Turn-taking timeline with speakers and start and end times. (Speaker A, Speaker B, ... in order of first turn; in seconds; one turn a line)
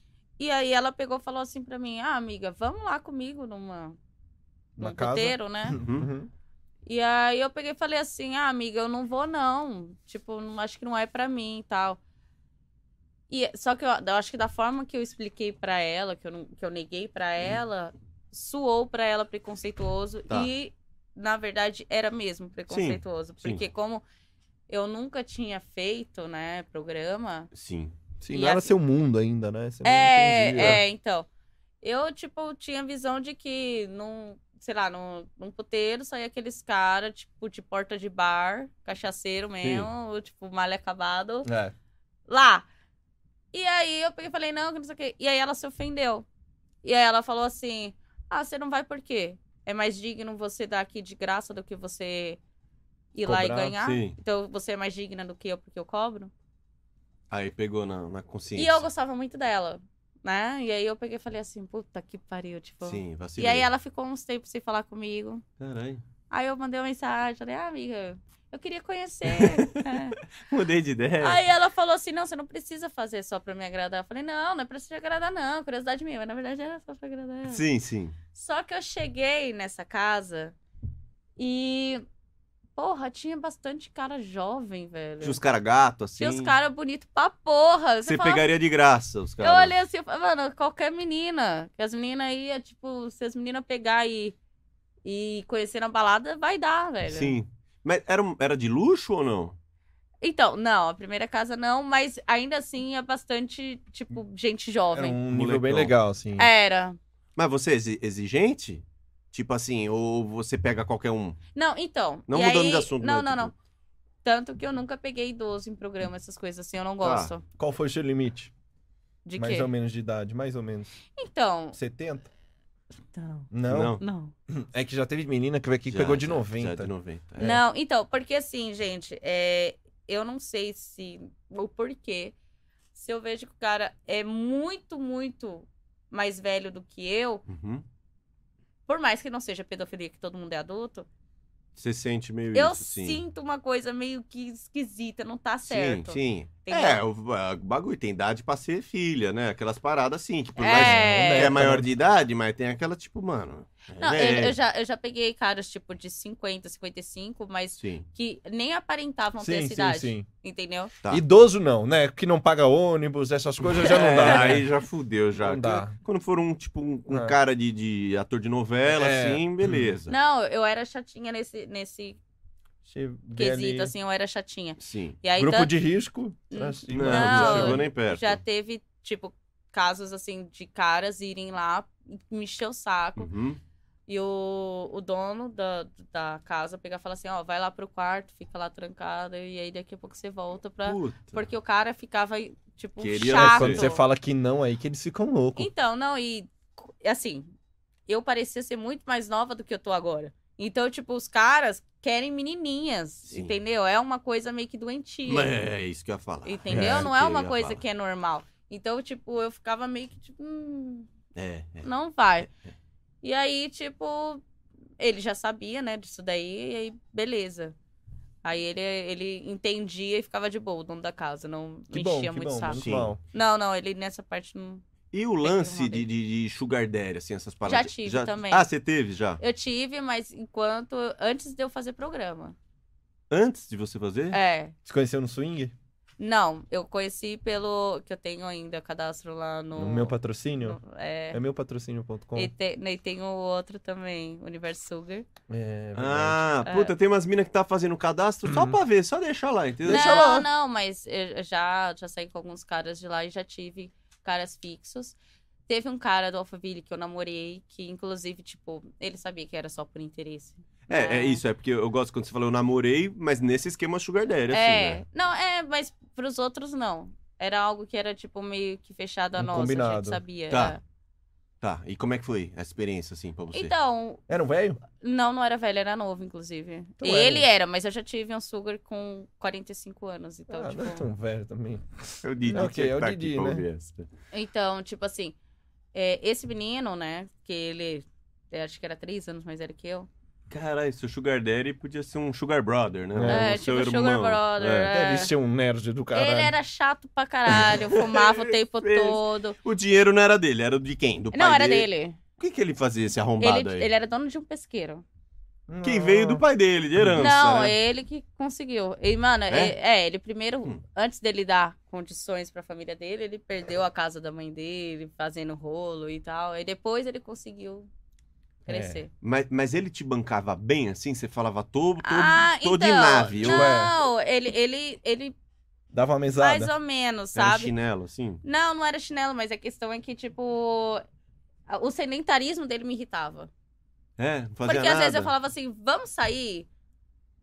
Speaker A: 0.4-4.0
Speaker B: 4.8-6.3
Speaker A: 4.8-5.8
Speaker C: 5.7-6.1
Speaker A: 6.8-12.0
Speaker A: 13.3-24.0
Speaker C: 22.7-23.6
Speaker A: 24.7-27.5
Speaker C: 27.5-27.9
Speaker B: 28.2-30.8
Speaker A: 28.3-28.7
Speaker A: 29.8-31.3
Speaker A: 31.8-41.5
Speaker C: 39.6-39.9
Speaker B: 41.5-41.7
Speaker A: 42.3-42.6
Speaker A: 43.5-46.2
Speaker A: 46.8-52.4
Speaker A: 53.1-56.3
Speaker B: 53.2-53.8
Speaker C: 53.8-54.1
Speaker C: 57.3-58.8
Speaker A: 58.5-65.4
Speaker C: 62.8-63.7
Speaker C: 65.6-66.0
Speaker A: 66.3-70.2
Speaker C: 69.3-71.4
Speaker A: 71.2-77.6
Speaker C: 77.5-78.2
Speaker A: 78.3-80.5
Speaker A: 81.4-82.0
Speaker A: 82.8-85.4
Speaker C: 85.2-86.5
Speaker A: 86.2-88.5
Speaker C: 88.0-89.7
Speaker A: 89.4-94.3
Speaker A: 95.0-97.4
Speaker C: 97.1-99.5
Speaker A: 100.2-105.2
Speaker B: 104.9-106.5
Speaker C: 105.3-105.9
Speaker A: 106.4-107.0
Speaker C: 107.3-111.4
Speaker A: 111.5-113.5
Speaker C: 112.3-113.5
Speaker A: 114.2-117.4
Speaker C: 117.0-117.3
Speaker B: 117.6-118.5
Speaker A: 119.2-119.7
Speaker B: 119.4-120.9
Speaker A: 121.2-121.8
Speaker B: 121.7-122.3
Speaker A: 123.1-124.3
Speaker B: 123.5-124.0
Speaker C: 123.7-124.0
Speaker B: 124.5-127.6
Speaker C: 125.9-127.5
Speaker A: 127.4-132.3
Speaker A: 132.9-137.4
Speaker C: 137.5-137.8
Speaker A: 138.9-141.1
Speaker C: 141.8-143.2
Speaker A: 142.5-147.0
Speaker C: 145.6-154.6
Speaker A: 150.6-151.6
Speaker B: 150.7-151.9
Speaker A: 154.0-160.9
Speaker C: 157.8-158.1
Speaker B: 159.4-160.3
Speaker B: 161.1-164.7
Speaker C: 163.8-170.1
Speaker A: 164.0-164.5
Speaker B: 165.4-165.9
Speaker B: 167.1-167.3
Speaker B: 168.8-169.9
Speaker A: 170.1-172.2
Speaker B: 172.8-173.9
Speaker A: 173.3-175.7
Speaker C: 174.8-175.2
Speaker B: 175.3-177.8
Speaker A: 176.5-183.3
Speaker C: 176.9-178.4
Speaker C: 183.2-183.6
Speaker A: 184.1-194.0
Speaker C: 190.8-191.4
Speaker C: 193.0-193.9
Speaker B: 193.3-195.7
Speaker A: 195.6-197.5
Speaker A: 198.1-205.5
Speaker C: 203.3-203.6
Speaker C: 205.2-207.8
Speaker A: 206.4-211.1
Speaker B: 206.7-207.1
Speaker C: 211.3-211.9
Speaker A: 211.8-212.5
Speaker A: 213.2-214.4
Speaker A: 215.0-217.7
Speaker A: 218.4-224.8
Speaker B: 221.9-223.2
Speaker C: 222.7-223.1
Speaker C: 225.1-229.4
Speaker A: 225.4-226.1
Speaker A: 227.7-228.7
Speaker A: 229.4-232.6
Speaker C: 233.3-234.4
Speaker A: 234.3-234.7
Speaker B: 234.8-235.7
Speaker A: 236.2-241.4
Speaker B: 239.8-240.8
Speaker B: 241.3-242.5
Speaker A: 242.3-245.3
Speaker B: 245.5-246.4
Speaker C: 245.9-250.5
Speaker A: 246.6-246.9
Speaker B: 248.5-248.8
Speaker B: 249.8-250.4
Speaker A: 249.8-255.2
Speaker A: 255.7-261.4
Speaker C: 260.9-265.0
Speaker A: 264.5-270.8
Speaker B: 269.4-270.2
Speaker C: 270.5-270.8
Speaker C: 271.6-273.7
Speaker A: 273.5-274.2
Speaker B: 274.3-274.8
Speaker A: 275.0-281.1
Speaker B: 277.0-277.5
Speaker B: 280.5-283.6
Speaker C: 282.2-284.1
Speaker A: 284.3-285.4
Speaker A: 285.9-290.1
Speaker C: 290.5-294.9
Speaker B: 293.1-293.5
Speaker A: 293.3-295.3
Speaker B: 294.9-296.5
Speaker A: 296.1-299.6
Speaker C: 297.5-303.9
Speaker A: 301.3-302.2
Speaker A: 303.4-305.0
Speaker B: 305.7-306.4
Speaker C: 305.8-307.7
Speaker A: 307.2-317.9
Speaker C: 309.5-309.7
Speaker A: 318.6-319.1
Speaker B: 318.7-319.0
Speaker C: 319.2-323.8
Speaker A: 322.0-325.3
Speaker B: 323.4-323.9
Speaker B: 325.9-326.7
Speaker A: 326.4-327.7
Speaker C: 327.3-328.4
Speaker A: 328.4-331.0
Speaker A: 331.7-333.5
Speaker C: 334.2-335.3
Speaker A: 334.6-336.7